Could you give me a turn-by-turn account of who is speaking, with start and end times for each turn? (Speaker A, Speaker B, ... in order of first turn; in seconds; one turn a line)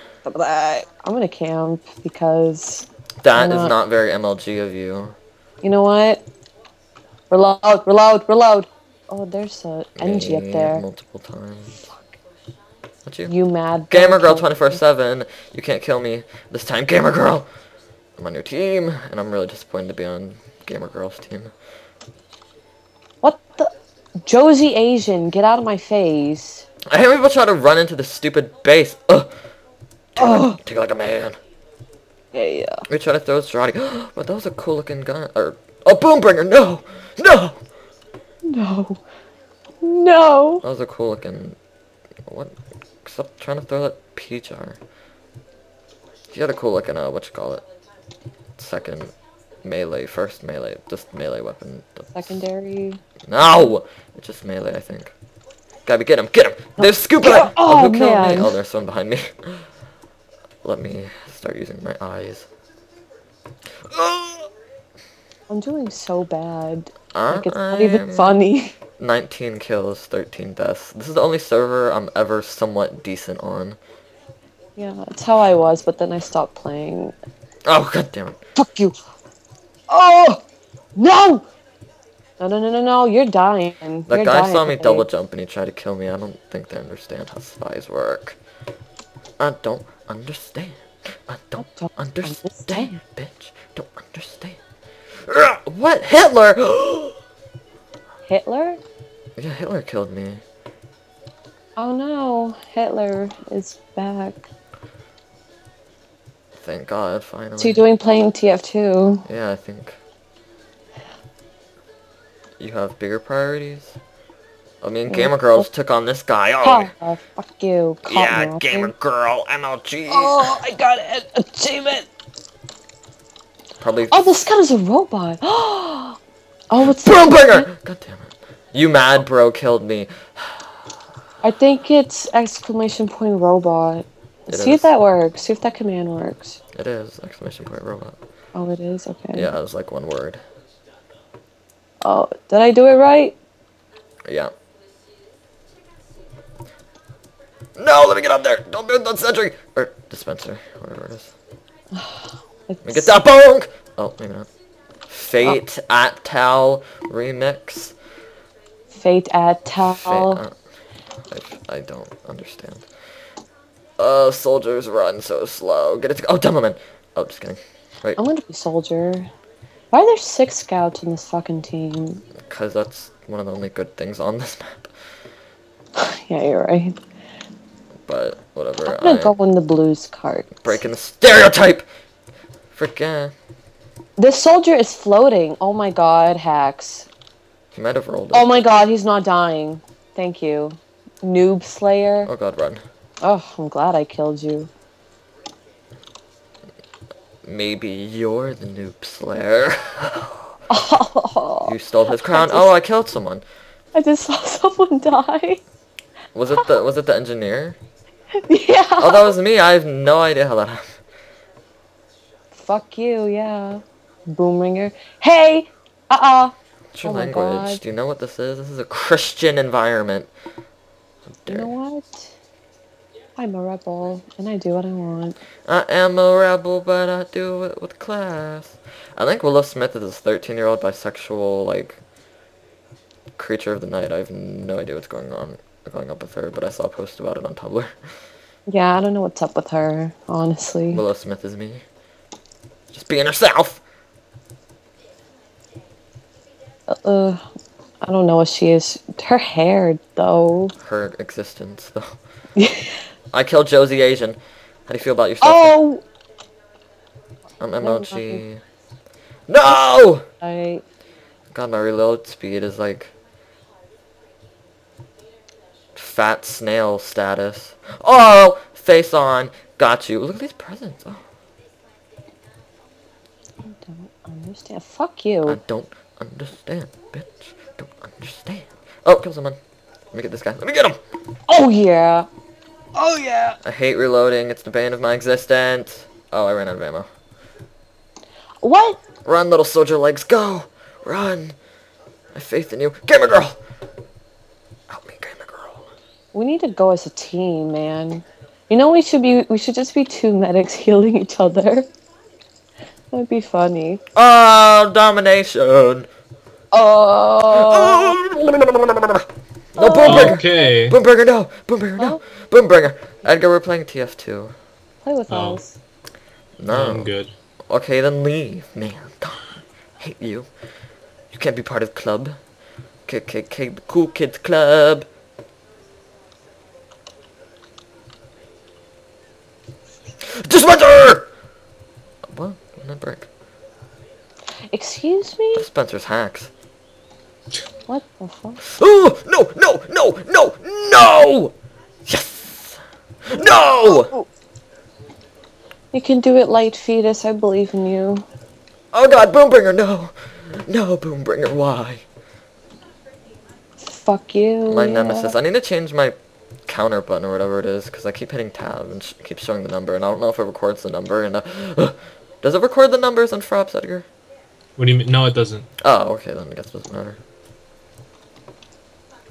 Speaker A: 0.2-3.7
Speaker B: 3.2-5.2
Speaker A: 5.6-6.2
Speaker A: 7.3-10.8
Speaker B: 10.0-11.8
Speaker B: 13.1-13.3
Speaker A: 13.2-14.8
Speaker B: 13.9-17.4
Speaker B: 18.2-21.5
Speaker A: 23.2-23.7
Speaker A: 24.2-26.6
Speaker B: 26.9-29.3
Speaker B: 30.1-31.4
Speaker A: 30.2-30.5
Speaker A: 32.3-32.8
Speaker B: 32.9-37.6
Speaker A: 38.5-39.0
Speaker A: 39.8-40.6
Speaker B: 40.6-41.6
Speaker B: 42.3-44.8
Speaker B: 46.3-47.6
Speaker B: 48.6-49.1
Speaker B: 49.6-52.3
Speaker A: 52.1-53.0
Speaker B: 53.3-55.1
Speaker B: 55.9-59.7
Speaker A: 56.8-58.5
Speaker B: 60.6-62.5
Speaker B: 63.8-64.5
Speaker A: 65.5-68.7
Speaker B: 67.1-68.4
Speaker B: 69.0-73.8
Speaker A: 74.8-77.1
Speaker B: 77.6-78.4
Speaker A: 78.6-79.0
Speaker A: 79.9-80.4
Speaker A: 81.0-81.5
Speaker A: 82.4-85.0
Speaker B: 84.1-88.4
Speaker B: 89.4-94.6
Speaker A: 91.6-93.0
Speaker B: 95.2-97.2
Speaker A: 98.2-98.8
Speaker B: 99.4-100.4
Speaker A: 101.8-104.5
Speaker B: 106.6-107.8
Speaker A: 107.6-109.2
Speaker B: 109.2-110.0
Speaker B: 112.6-114.0
Speaker B: 114.8-116.9
Speaker A: 115.1-115.7
Speaker A: 116.6-118.9
Speaker B: 118.0-120.6
Speaker A: 120.1-122.0
Speaker B: 123.8-124.3
Speaker A: 124.1-126.2
Speaker A: 126.7-127.7
Speaker B: 126.9-130.7
Speaker A: 131.4-136.6
Speaker B: 134.5-134.9
Speaker B: 136.7-138.2
Speaker A: 138.5-139.5
Speaker B: 139.3-140.4
Speaker A: 142.0-143.4
Speaker B: 144.3-144.5
Speaker B: 147.8-151.3
Speaker A: 151.9-153.1
Speaker B: 152.8-154.5
Speaker B: 155.1-157.9
Speaker A: 158.9-160.4
Speaker B: 159.8-160.5
Speaker B: 161.3-162.8
Speaker B: 164.0-168.2
Speaker A: 168.2-169.3
Speaker A: 169.9-172.2
Speaker B: 172.4-174.9
Speaker A: 175.9-177.0
Speaker B: 178.1-179.3
Speaker A: 178.8-180.8
Speaker B: 180.6-181.8
Speaker B: 182.7-183.3
Speaker A: 184.2-187.1
Speaker B: 187.7-188.6
Speaker A: 188.3-192.3
Speaker B: 192.2-192.8
Speaker A: 193.2-194.7
Speaker B: 197.4-200.5
Speaker A: 200.7-202.7
Speaker B: 201.6-203.4
Speaker A: 203.9-205.6
Speaker B: 206.3-207.8
Speaker A: 208.4-209.3
Speaker B: 209.0-210.9
Speaker A: 212.5-217.8
Speaker B: 216.9-220.3
Speaker B: 221.4-221.7
Speaker A: 221.5-222.3
Speaker A: 223.3-225.4
Speaker B: 225.7-232.0
Speaker B: 233.3-237.9
Speaker A: 238.7-241.0
Speaker B: 240.9-241.8
Speaker B: 242.9-243.8
Speaker A: 246.9-247.4
Speaker A: 248.0-250.7
Speaker B: 250.8-252.1
Speaker A: 252.6-253.0
Speaker B: 253.3-254.4
Speaker B: 254.9-255.7
Speaker A: 255.4-256.0
Speaker B: 257.6-258.6
Speaker A: 257.8-258.4
Speaker B: 259.5-260.3
Speaker A: 260.4-260.8
Speaker B: 261.5-263.1
Speaker B: 265.9-271.2
Speaker A: 273.6-275.6
Speaker B: 275.4-279.6
Speaker B: 280.1-281.0
Speaker A: 281.5-282.3
Speaker A: 283.0-283.5
Speaker B: 283.6-287.1
Speaker A: 288.6-289.0
Speaker B: 289.2-291.5
Speaker B: 292.3-293.6
Speaker B: 294.9-295.8
Speaker A: 296.3-301.9
Speaker A: 303.1-304.0
Speaker B: 304.1-306.1
Speaker A: 306.7-308.1
Speaker B: 307.5-314.5
Speaker A: 309.8-310.7
Speaker C: 310.0-311.0
Speaker A: 315.0-315.8
Speaker C: 315.3-315.6
Speaker B: 316.6-317.1
Speaker C: 316.7-317.3
Speaker B: 317.7-320.5
Speaker B: 321.3-322.4
Speaker B: 323.1-325.0
Speaker B: 330.2-331.3
Speaker B: 332.3-333.3
Speaker A: 334.7-335.6
Speaker B: 335.5-336.5
Speaker A: 337.9-338.6
Speaker B: 338.6-341.5
Speaker B: 342.1-344.1
Speaker A: 343.9-344.3
Speaker A: 345.9-348.2
Speaker B: 348.9-352.0
Speaker A: 353.8-355.3
Speaker B: 354.7-356.1
Speaker B: 356.7-364.1
Speaker C: 364.8-365.7
Speaker B: 365.8-367.2